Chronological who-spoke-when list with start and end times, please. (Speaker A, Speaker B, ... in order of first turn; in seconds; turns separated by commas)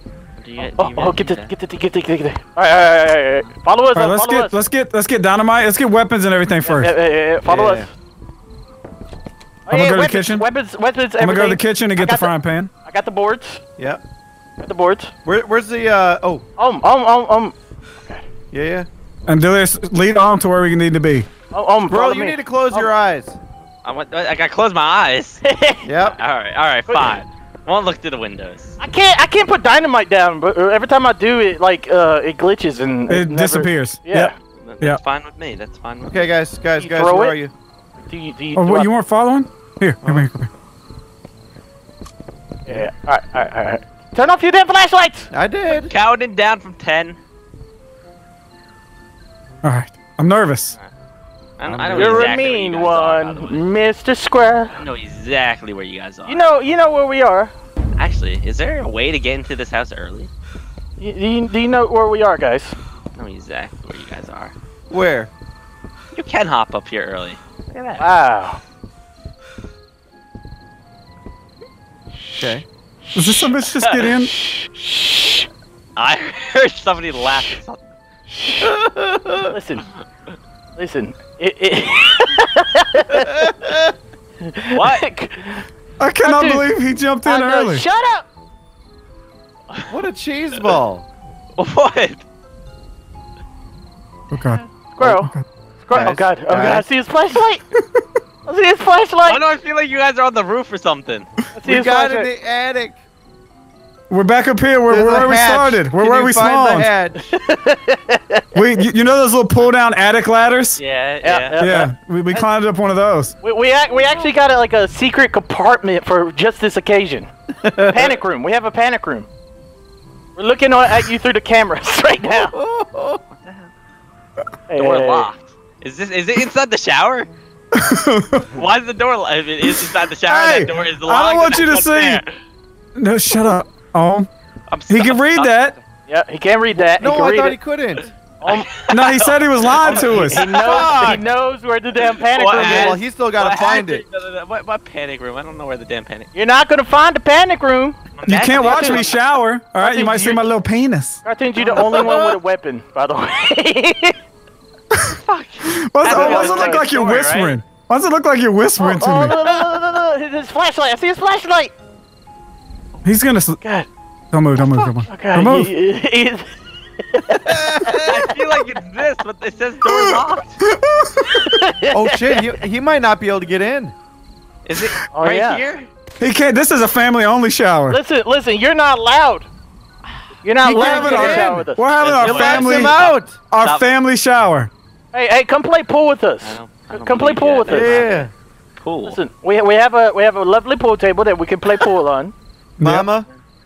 Speaker A: 0.4-1.5, Speaker B: 0.6-4.6, Speaker C: 3.9-6.9, Speaker B: 6.6-7.9, Speaker D: 7.5-7.9, Speaker B: 9.7-12.3, Speaker C: 9.7-10.4, Speaker C: 11.2-12.7, Speaker B: 12.8-13.6, Speaker B: 14.6-15.1, Speaker D: 15.2-16.4, Speaker B: 16.6-18.2, Speaker D: 18.5-18.9, Speaker C: 19.3-21.3, Speaker B: 21.5-22.9, Speaker D: 21.9-23.4, Speaker A: 23.8-25.4, Speaker B: 25.4-25.9, Speaker D: 25.8-26.2, Speaker A: 26.2-28.8, Speaker B: 26.9-27.2, Speaker B: 28.8-34.3, Speaker C: 33.1-35.0, Speaker A: 34.5-36.3, Speaker D: 36.1-37.5, Speaker B: 36.8-37.4, Speaker B: 38.1-38.9, Speaker C: 38.5-40.5, Speaker B: 42.6-45.3, Speaker D: 45.3-45.9, Speaker A: 45.7-47.2, Speaker C: 49.6-50.7, Speaker A: 51.6-53.6, Speaker C: 51.7-52.3, Speaker D: 51.8-52.1, Speaker B: 51.9-54.8, Speaker A: 54.8-56.4, Speaker B: 56.3-57.5, Speaker A: 58.0-60.3, Speaker B: 61.0-62.8, Speaker A: 63.1-64.5, Speaker D: 64.9-65.3, Speaker A: 66.1-68.0, Speaker B: 68.0-68.6, Speaker B: 72.1-73.5, Speaker D: 72.4-72.6, Speaker C: 73.1-74.3, Speaker A: 73.8-74.1, Speaker B: 74.2-75.5, Speaker A: 76.0-77.8, Speaker B: 78.3-78.7, Speaker D: 78.6-79.5, Speaker B: 79.5-79.9, Speaker B: 80.8-83.3, Speaker D: 83.2-83.9, Speaker B: 84.4-85.6, Speaker A: 84.7-85.0, Speaker C: 86.0-87.8, Speaker B: 86.2-86.7, Speaker B: 87.2-88.3, Speaker D: 89.9-91.0, Speaker A: 91.5-92.2, Speaker C: 94.3-95.5, Speaker B: 94.9-97.6, Speaker D: 95.9-96.8, Speaker C: 97.8-98.0, Speaker B: 98.5-99.4, Speaker A: 99.3-101.3, Speaker B: 101.5-102.3, Speaker D: 101.6-103.0, Speaker C: 104.1-106.9, Speaker D: 104.9-107.2, Speaker B: 107.3-108.4, Speaker C: 108.5-110.8, Speaker A: 110.8-111.7, Speaker B: 111.2-112.5, Speaker C: 111.6-113.3, Speaker B: 113.4-117.3, Speaker D: 117.6-118.1, Speaker B: 117.8-119.3, Speaker B: 120.3-122.5, Speaker D: 122.2-123.2, Speaker A: 123.3-123.7, Speaker B: 124.7-125.3, Speaker A: 124.8-127.3, Speaker C: 127.7-128.5, Speaker A: 128.5-132.3, Speaker C: 129.6-132.2, Speaker C: 132.9-134.3, Speaker A: 134.7-135.8, Speaker C: 134.9-135.7, Speaker B: 136.1-137.6, Speaker D: 136.7-138.1, Speaker B: 138.4-138.7, Speaker A: 138.4-141.2, Speaker C: 138.9-140.5, Speaker B: 139.8-143.0, Speaker D: 140.5-141.2, Speaker A: 142.2-146.3, Speaker D: 142.5-144.0, Speaker B: 146.3-148.0, Speaker A: 148.2-149.2, Speaker C: 148.2-151.2, Speaker B: 148.6-149.1, Speaker B: 149.8-150.4, Speaker B: 151.2-154.2, Speaker A: 151.6-152.4, Speaker C: 154.9-159.3, Speaker A: 155.1-157.6, Speaker B: 156.0-156.8, Speaker B: 158.8-161.7, Speaker C: 163.0-163.6, Speaker B: 163.6-163.9, Speaker C: 164.3-165.7, Speaker B: 164.6-168.1, Speaker D: 167.3-168.3, Speaker A: 168.0-170.6, Speaker C: 169.8-171.6, Speaker B: 171.3-172.4, Speaker D: 171.9-173.9, Speaker A: 174.6-175.9, Speaker B: 175.1-175.6, Speaker C: 176.2-178.0, Speaker B: 177.9-179.5, Speaker B: 180.4-181.9, Speaker C: 180.6-183.0, Speaker D: 180.6-181.6, Speaker A: 182.0-183.9, Speaker D: 182.2-183.4, Speaker C: 183.5-184.7, Speaker B: 185.1-188.2, Speaker A: 186.4-188.2, Speaker D: 187.7-188.3, Speaker A: 188.8-189.2, Speaker B: 189.1-192.3, Speaker C: 192.8-193.1, Speaker D: 192.8-193.3